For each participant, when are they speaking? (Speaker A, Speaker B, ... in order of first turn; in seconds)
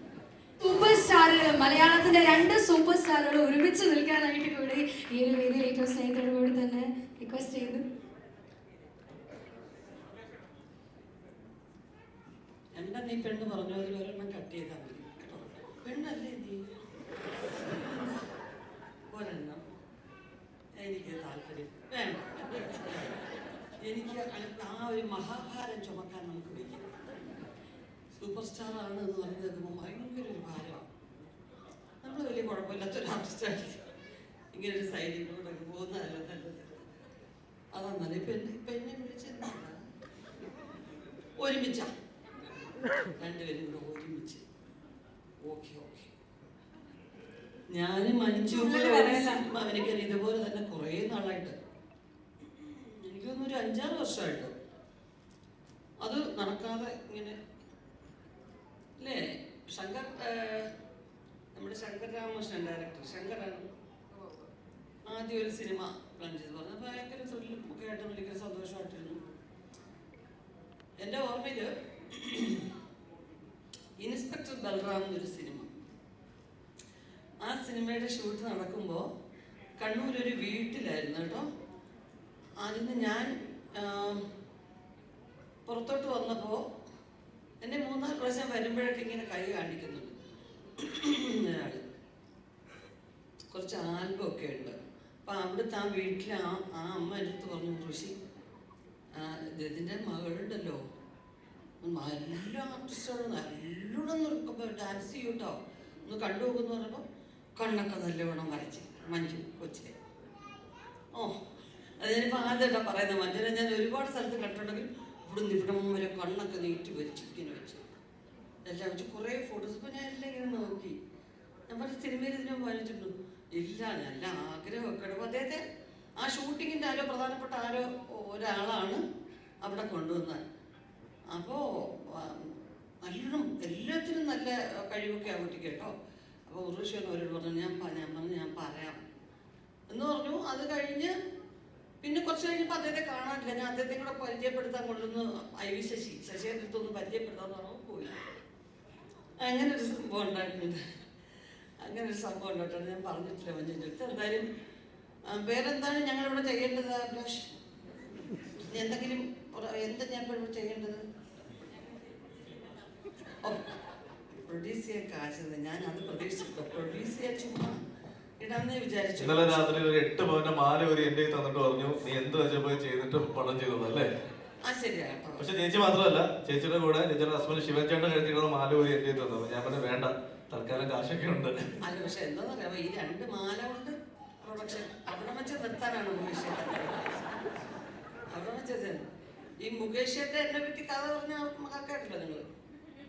Speaker A: 0.6-7.8, 48.4-49.4
Speaker B: 12.7-16.6, 17.5-18.2, 19.1-19.6, 20.8-23.2, 23.8-26.9, 28.1-30.9, 32.0-33.8, 34.5-36.8, 37.7-39.8, 41.4-41.9, 43.2-44.4, 45.4-46.1, 47.7-51.5, 52.5-54.5, 56.0-57.4, 59.0-60.7, 61.5-63.6, 65.1-69.2, 71.0-72.7, 74.0-75.7, 77.4-79.0, 79.8-81.4, 82.6-84.2, 85.7-86.6, 87.6-90.1, 90.8-91.8, 93.5-94.7, 95.2-98.1, 99.1-100.8, 101.8-107.0, 107.6-109.9, 112.0-117.8, 118.7-121.0, 121.7-125.6, 126.2-129.0, 129.6-130.4, 131.3-135.9, 136.5-139.0, 139.9-141.1, 142.0-148.2, 149.4-150.8, 151.8-154.4, 155.3-157.5, 158.7-161.0, 163.4-163.7, 164.3-167.8, 168.4-169.8, 174.6-175.5, 181.8-187.4, 188.3-189.1, 189.6-192.4
Speaker C: 169.2-174.1, 175.4-181.8